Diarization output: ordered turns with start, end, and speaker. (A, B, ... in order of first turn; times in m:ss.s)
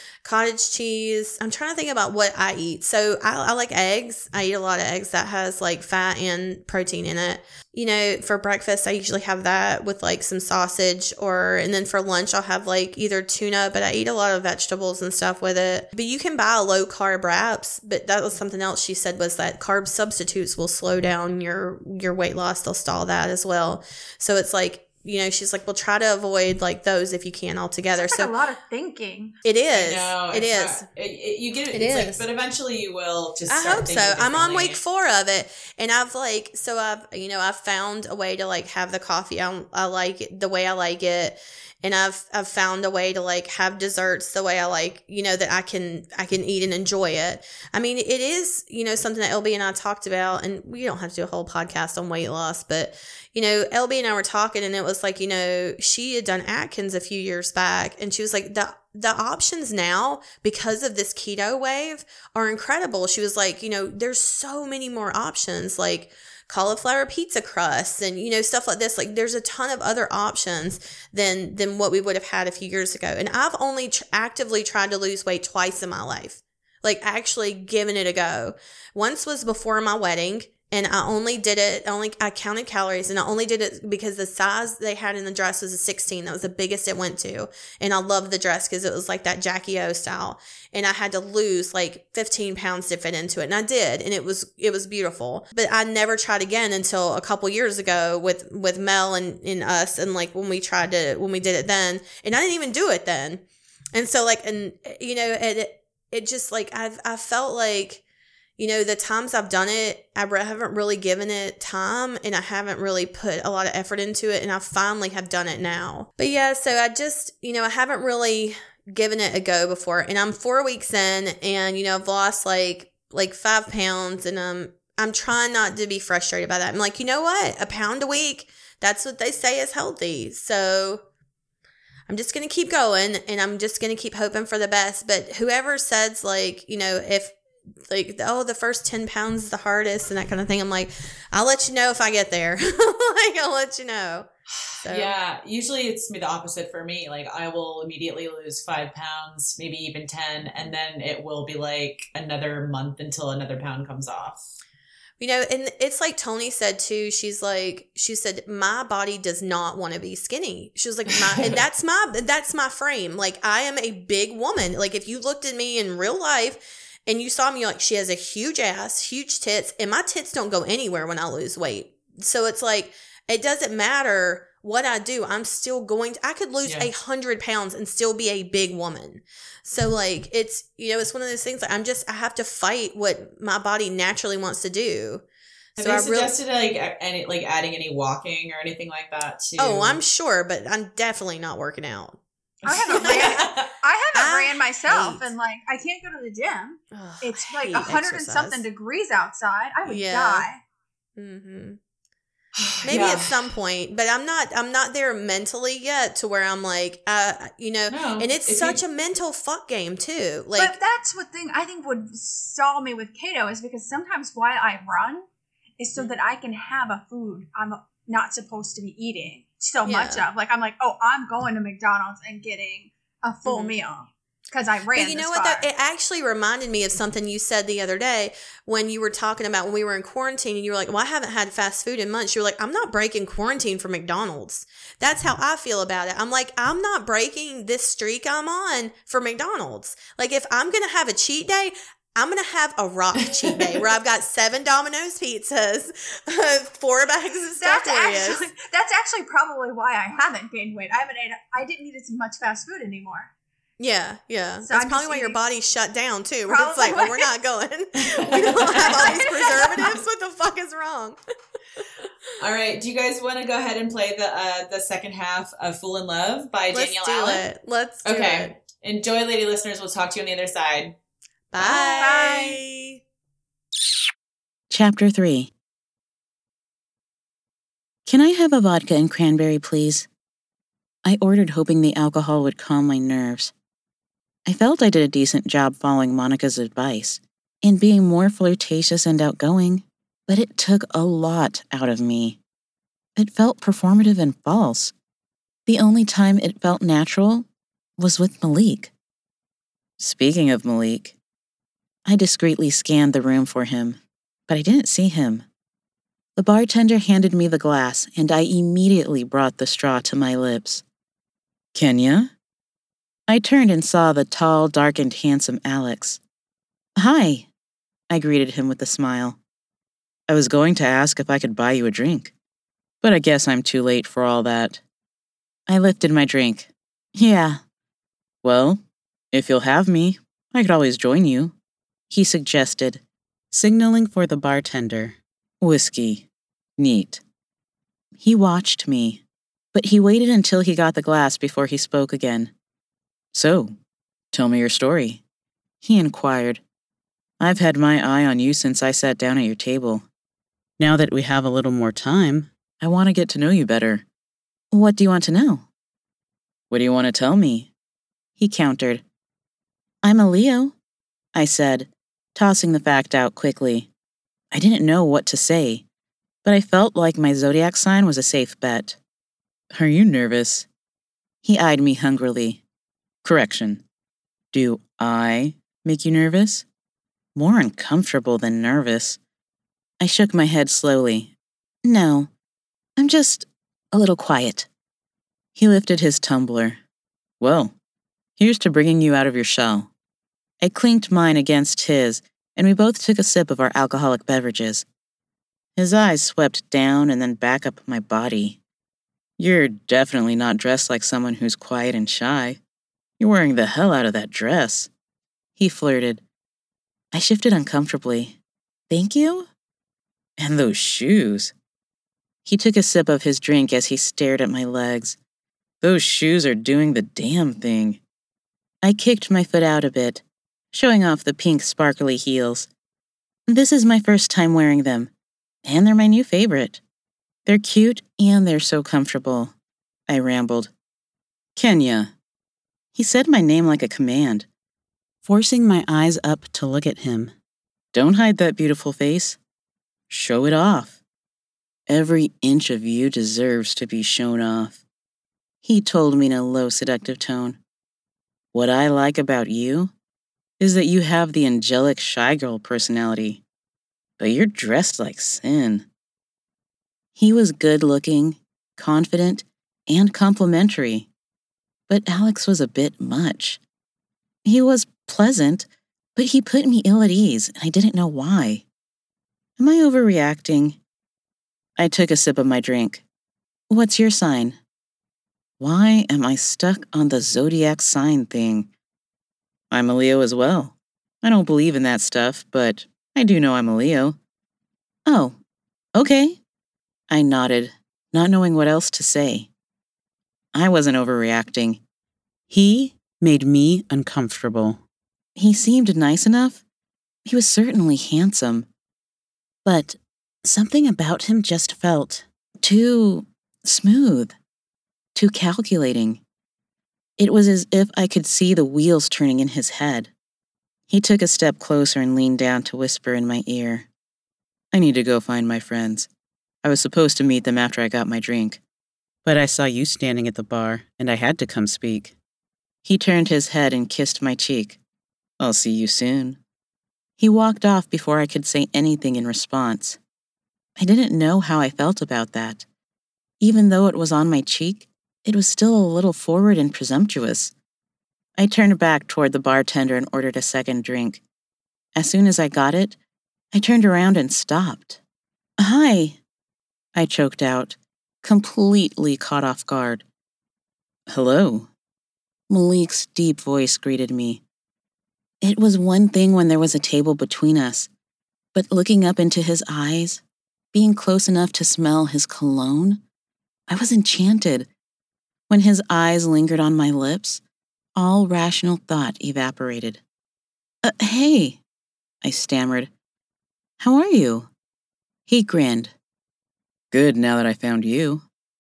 0:00.2-0:28.3 A
0:27.9-0:29.4 B
0:29.4-0:30.8 A
0:29.7-0:34.8 C
0:31.7-0:32.2 A
0:33.5-1:48.0 A
1:48.6-2:11.0 A
2:12.1-2:17.4 A
2:17.9-2:24.3 A
2:24.8-2:34.5 C
2:24.8-2:25.1 A
2:35.2-3:05.2 A
2:41.3-2:41.6 C
2:56.6-2:56.9 C
3:05.8-3:10.0 C
3:05.8-3:06.3 A
3:09.6-3:12.2 A
3:12.6-3:13.7 C
3:12.6-3:20.6 B
3:12.9-3:13.5 A
3:14.1-3:15.2 A
3:16.9-3:18.6 A
3:19.8-3:20.4 A
3:21.2-3:21.8 A
3:22.6-3:23.3 C
3:22.8-3:30.8 A
3:22.9-3:23.2 B
3:27.9-3:28.8 C
3:30.6-3:35.3 B
3:35.8-3:45.7 B
3:39.8-3:40.3 A
3:43.4-3:43.8 A
3:44.9-4:08.5 A
4:03.2-4:03.8 C
4:07.6-4:13.3 B
4:13.8-4:21.2 A
4:14.6-4:15.4 B
4:16.5-4:17.3 B
4:18.0-4:19.2 C
4:18.3-4:20.0 B
4:22.4-4:27.4 C
4:26.7-4:28.5 A
4:28.0-4:31.0 C
4:31.5-4:33.0 A
4:31.6-4:32.6 B
4:31.6-4:32.1 C
4:34.7-4:35.5 D
4:38.0-4:40.1 D
4:41.0-4:43.5 D
4:44.4-4:52.4 D
4:53.2-4:54.9 D
4:55.6-4:57.5 D
4:58.0-4:58.9 D
5:00.0-5:01.2 D
5:02.0-5:05.4 D
5:06.4-5:10.8 D
5:11.7-5:12.3 D
5:13.3-5:16.2 D
5:17.0-5:17.5 D
5:18.1-5:19.4 D
5:20.3-5:22.3 D
5:23.0-5:24.8 D
5:25.7-5:27.6 D
5:28.4-5:28.8 D
5:29.3-5:31.5 D
5:32.1-5:36.2 D
5:36.8-5:37.2 D
5:38.2-5:42.5 D
5:43.3-5:43.7 D
5:44.3-5:45.2 D
5:45.8-5:46.6 D
5:47.4-5:50.0 D
5:50.8-5:54.0 D
5:54.7-5:55.6 D
5:56.7-5:57.7 D
5:58.4-5:59.0 D
6:00.0-6:00.7 D
6:01.3-6:03.9 D
6:04.5-6:05.8 D
6:06.4-6:09.0 D
6:09.7-6:10.7 D
6:11.4-6:12.6 D
6:13.2-6:13.8 D
6:14.5-6:16.6 D
6:17.3-6:19.2 D
6:20.0-6:21.3 D
6:21.8-6:22.3 D
6:23.0-6:24.7 D
6:25.6-6:26.8 D
6:27.4-6:27.7 D
6:28.4-6:29.9 D
6:30.6-6:34.8 D
6:35.8-6:38.6 D
6:39.4-6:42.6 D
6:43.2-6:44.9 D
6:45.6-6:46.2 D
6:47.1-6:48.4 D
6:48.9-6:49.5 D
6:50.4-6:51.5 D
6:52.4-6:55.2 D
6:55.8-6:58.0 D
6:58.8-7:02.7 D
7:03.5-7:05.1 D
7:05.6-7:06.8 D
7:07.4-7:09.5 D
7:10.1-7:10.7 D
7:11.6-7:12.1 D
7:12.9-7:14.5 D
7:15.2-7:17.3 D
7:17.9-7:19.4 D
7:20.1-7:21.0 D
7:21.9-7:24.8 D
7:25.6-7:27.6 D
7:28.5-7:29.9 D
7:30.6-7:33.4 D
7:34.2-7:35.9 D
7:37.2-7:41.1 D
7:41.9-7:43.6 D
7:44.4-7:48.6 D
7:49.6-7:50.8 D
7:51.8-7:53.0 D
7:53.7-7:54.6 D
7:55.6-7:58.7 D
7:59.7-8:04.2 D
8:05.0-8:05.4 D
8:05.9-8:06.4 D
8:07.1-8:09.5 D
8:10.5-8:11.8 D
8:12.5-8:14.8 D
8:15.4-8:16.6 D
8:17.2-8:18.7 D
8:19.6-8:24.3 D
8:25.1-8:26.2 D
8:27.2-8:30.1 D
8:30.9-8:33.9 D
8:34.7-8:36.1 D
8:36.6-8:38.6 D
8:39.2-8:42.1 D
8:42.8-8:44.8 D
8:45.4-8:46.4 D
8:47.2-8:50.0 D
8:50.8-8:52.6 D
8:53.4-8:57.5 D
8:58.4-9:01.2 D
9:01.9-9:03.0 D
9:03.5-9:05.0 D
9:05.6-9:06.2 D
9:06.9-9:10.0 D
9:11.1-9:11.7 D
9:12.5-9:14.4 D
9:15.4-9:17.9 D
9:18.5-9:20.2 D
9:20.7-9:23.0 D
9:23.7-9:24.7 D
9:25.5-9:27.4 D
9:27.9-9:30.0 D
9:30.8-9:31.6 D
9:32.2-9:32.9 D
9:33.8-9:34.5 D
9:35.3-9:35.9 D
9:36.9-9:38.2 D